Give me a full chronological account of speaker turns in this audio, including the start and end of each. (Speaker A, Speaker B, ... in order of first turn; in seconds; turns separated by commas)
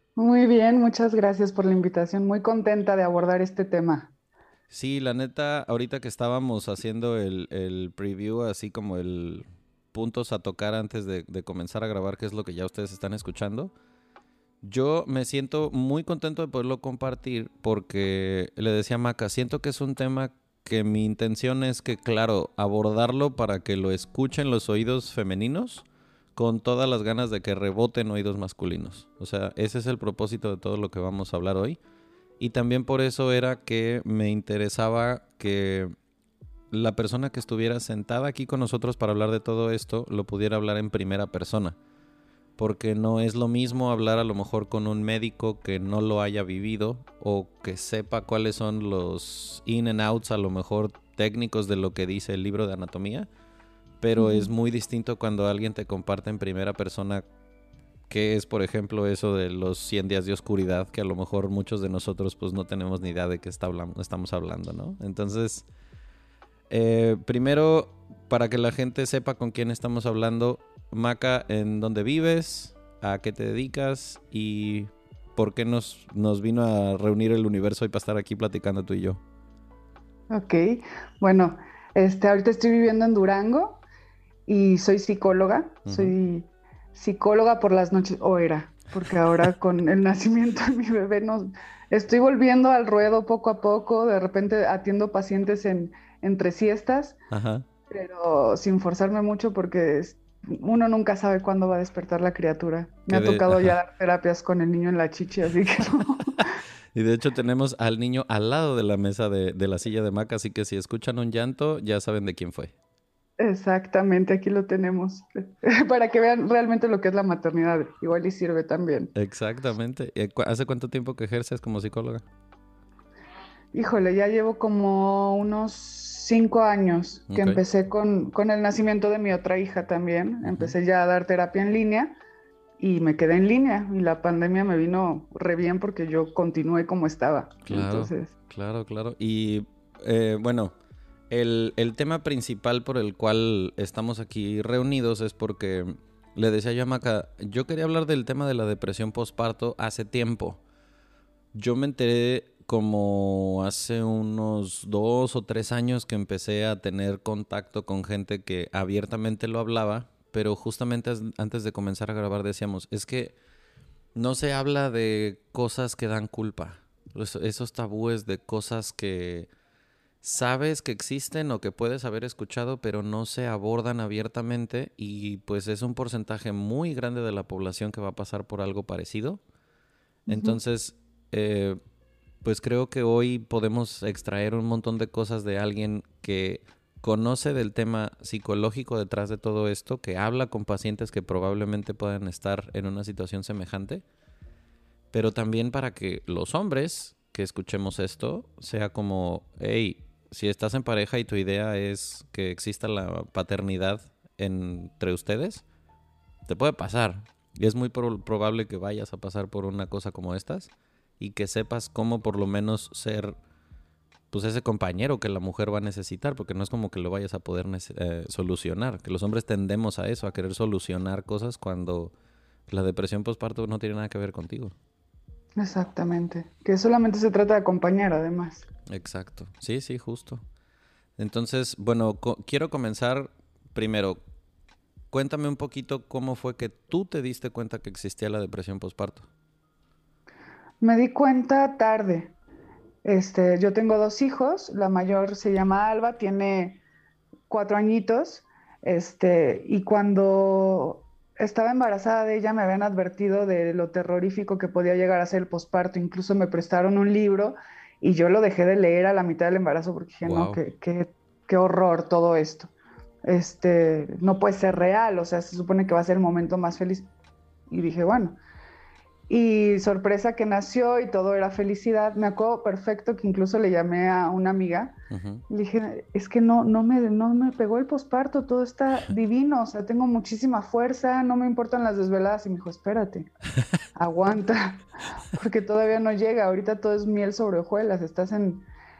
Speaker A: 0.2-4.1, Speaker B: 4.7-13.7, Speaker B: 14.6-31.8, Speaker B: 32.4-35.9, Speaker B: 36.7-41.8, Speaker B: 42.6-53.3, Speaker B: 54.0-57.2, Speaker A: 54.2-54.5, Speaker B: 58.1-65.7, Speaker B: 66.7-79.2, Speaker A: 80.3-83.8, Speaker A: 84.5-97.2, Speaker B: 85.9-86.2, Speaker B: 89.1-89.5, Speaker B: 97.3-97.7, Speaker A: 97.9-106.5, Speaker B: 103.1-103.8, Speaker B: 106.4-112.7, Speaker A: 113.4-119.1, Speaker B: 119.2-122.2, Speaker A: 123.7-132.2, Speaker B: 127.3-127.6, Speaker B: 130.4-130.8, Speaker A: 132.8-138.3, Speaker B: 137.7-140.7, Speaker B: 141.3-150.6, Speaker B: 151.5-163.4, Speaker B: 164.2-169.5, Speaker B: 170.2-179.4, Speaker A: 180.3-180.6, Speaker B: 180.3-181.8, Speaker B: 182.4-194.0, Speaker B: 195.1-205.7, Speaker B: 206.5-213.3, Speaker B: 214.3-222.1, Speaker B: 222.7-224.8, Speaker A: 225.6-228.7, Speaker B: 228.9-230.4, Speaker B: 231.2-234.2, Speaker B: 235.1-239.3, Speaker A: 240.8-242.3, Speaker A: 243.0-246.8, Speaker A: 247.5-262.7, Speaker B: 260.2-260.6, Speaker A: 263.3-267.1, Speaker A: 267.7-268.4, Speaker A: 269.3-275.0, Speaker B: 275.1-275.4, Speaker A: 275.5-283.3, Speaker A: 283.9-288.7